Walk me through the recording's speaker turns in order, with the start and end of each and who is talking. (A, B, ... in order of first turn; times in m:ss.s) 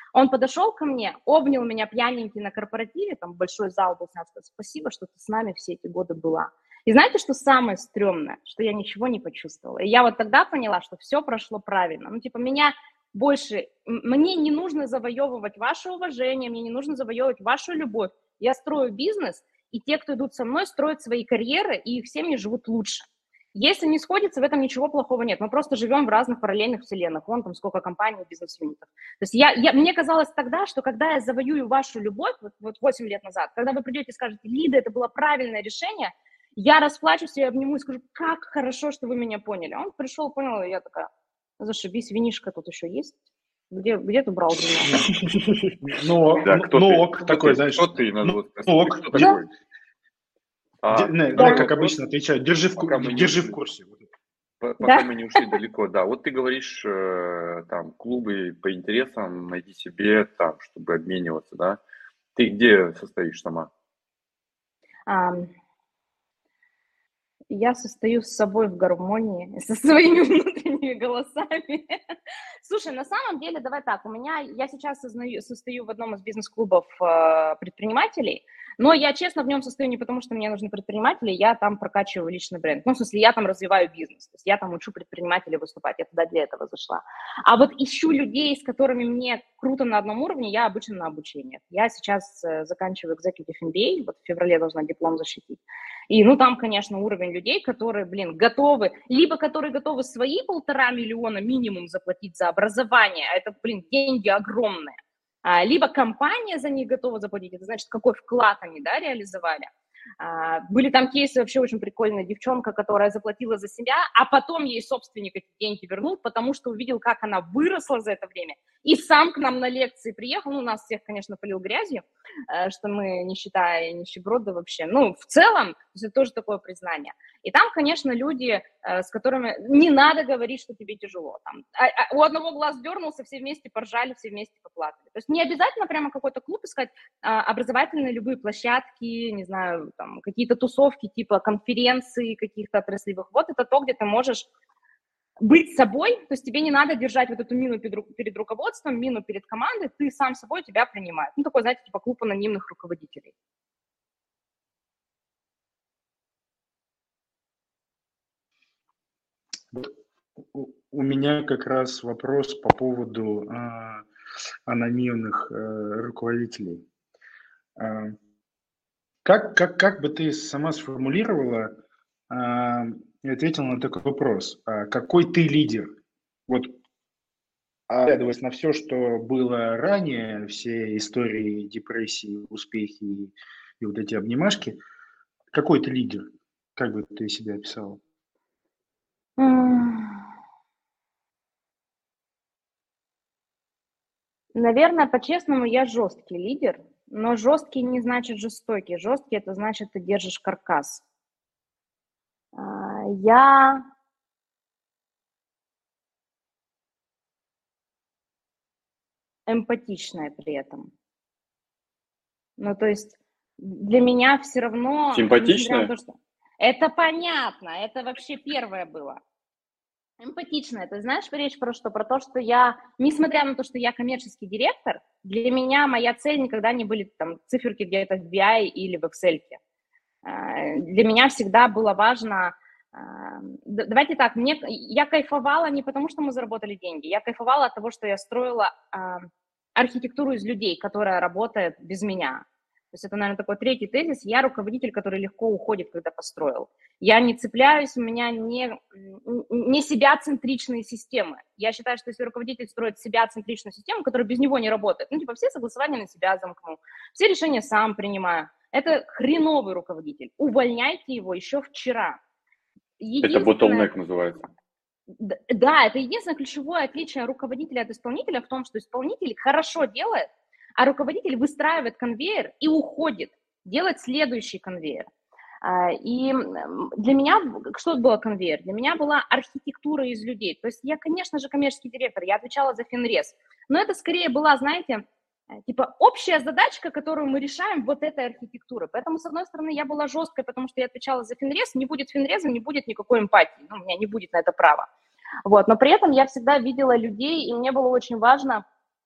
0:00.1-0:43.2 A
0:43.7-0:45.0 A
0:44.9-0:49.4 B
0:46.4-0:49.5 C
0:50.8-0:52.0 C
0:50.9-0:54.0 B
0:51.4-0:51.6 A
0:52.8-0:53.6 C
0:54.6-1:01.8 C
0:54.8-0:55.6 A
1:02.4-1:03.7 C
1:05.1-1:05.5 A
1:07.5-1:12.0 A
1:12.6-2:24.5 A
2:25.4-2:33.3 A
2:40.5-2:44.1 B
2:44.7-2:46.8 B
2:47.8-2:48.2 B
2:49.2-2:51.8 B
2:52.3-2:55.9 B
2:56.5-2:56.8 B
2:57.9-3:04.8 B
3:05.5-3:08.0 B
3:09.4-3:10.2 A
3:14.6-3:21.0 A
3:22.6-3:23.8 A
3:29.5-3:30.9 A
3:32.6-3:39.2 A
3:35.1-3:35.9 C
3:40.2-3:49.6 A
3:50.2-4:22.2 A
4:23.0-4:23.9 A
4:23.2-4:24.5 C
4:25.1-4:35.1 A
4:35.6-4:45.0 A
4:45.7-4:54.9 A
4:55.4-4:58.6 A